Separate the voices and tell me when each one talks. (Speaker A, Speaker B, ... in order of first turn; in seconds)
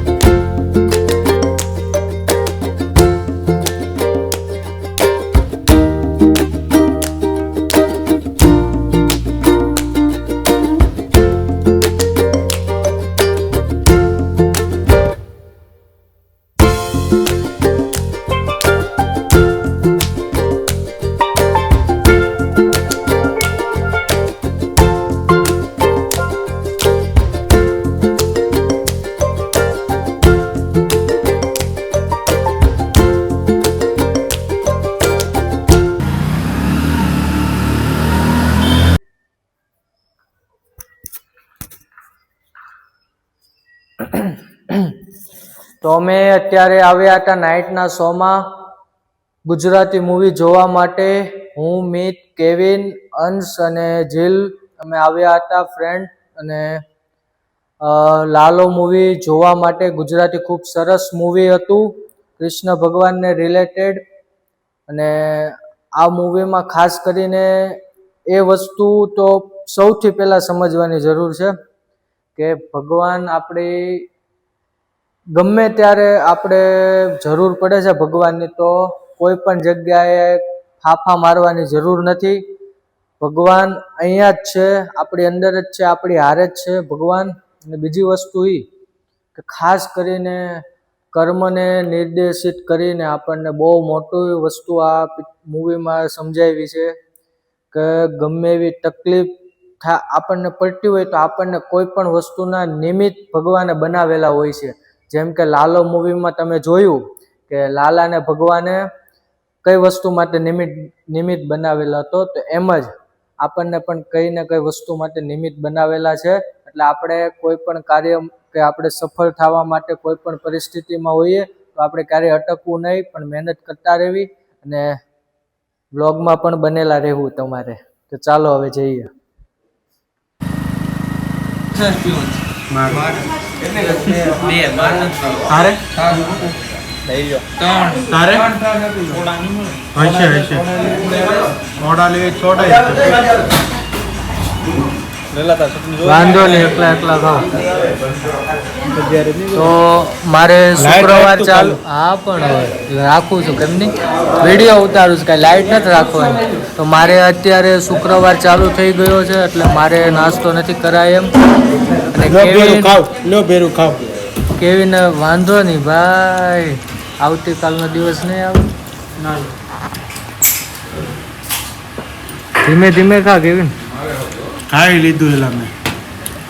Speaker A: 44.0-45.0, 45.8-48.4, 49.5-56.8, 57.8-64.0, 64.9-67.8, 68.3-71.5, 72.4-74.1, 75.4-82.4, 83.2-88.7, 89.3-90.6, 91.1-96.9, 97.7-108.8, 109.6-125.0, 126.0-129.1, 146.0-147.5, 149.5-161.3, 162.1-163.0, 164.6-168.7, 172.6-173.8
Speaker B: 132.7-133.2, 134.2-134.7, 135.3-136.3, 137.8-139.3, 139.9-140.9, 141.8-143.2, 145.5-145.9, 148.9-149.5, 150.8-151.8, 162.2-164.1, 174.7-175.7